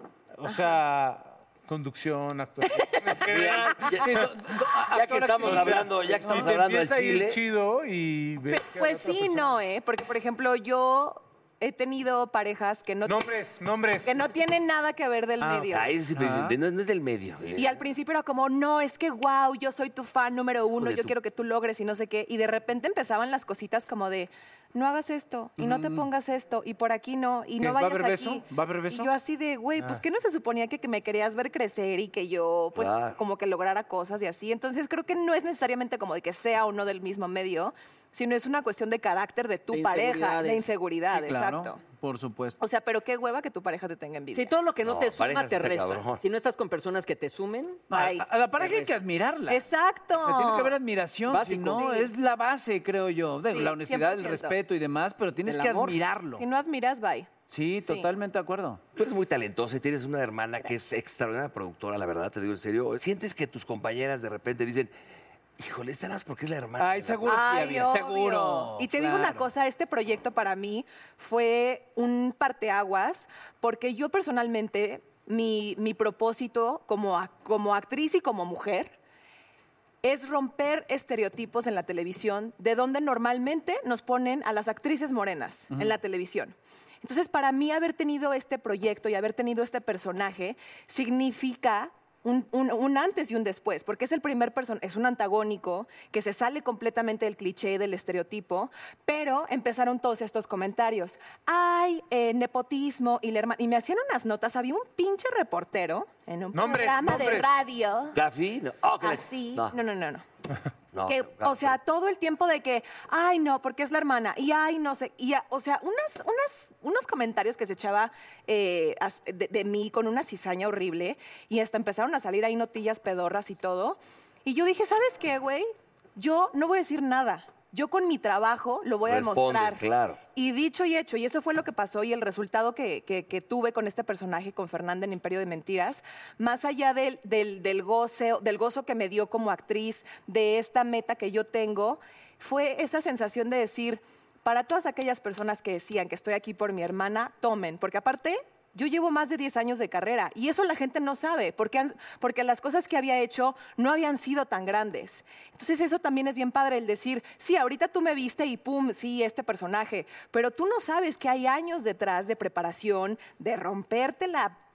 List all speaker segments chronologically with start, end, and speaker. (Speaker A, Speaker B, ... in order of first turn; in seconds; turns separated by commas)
Speaker A: 0.4-4.3, Speaker B: 3.3-7.4, Speaker C: 3.9-6.5, Speaker A: 5.4-9.6, Speaker D: 8.5-13.3, Speaker A: 13.1-14.2, Speaker D: 14.1-15.9, Speaker C: 15.4-16.6, Speaker B: 15.7-17.8, Speaker D: 17.6-41.8, Speaker B: 20.8-21.1, Speaker C: 25.6-26.1, Speaker C: 27.6-29.1, Speaker B: 32.8-33.2, Speaker E: 39.7-40.7, Speaker C: 41.1-42.6, Speaker D: 42.6-44.5, Speaker E: 44.3-47.9, Speaker B: 44.8-46.2, Speaker C: 47.9-49.6, Speaker D: 47.9-48.3, Speaker E: 48.6-48.9, Speaker D: 49.5-50.8, Speaker C: 50.2-56.5, Speaker E: 51.3-51.9, Speaker D: 51.8-52.1, Speaker D: 53.4-54.6, Speaker E: 55.5-56.0, Speaker D: 56.4-57.3, Speaker C: 57.5-58.8, Speaker D: 57.8-58.1, Speaker B: 59.0-64.9, Speaker B: 65.6-67.4, Speaker C: 66.8-69.5, Speaker D: 67.3-79.0, Speaker D: 80.0-108.2, Speaker A: 106.5-107.5, Speaker B: 108.1-109.7, Speaker D: 109.0-110.2, Speaker B: 110.9-111.8, Speaker D: 111.0-129.8, Speaker B: 129.1-130.2, Speaker D: 130.3-164.6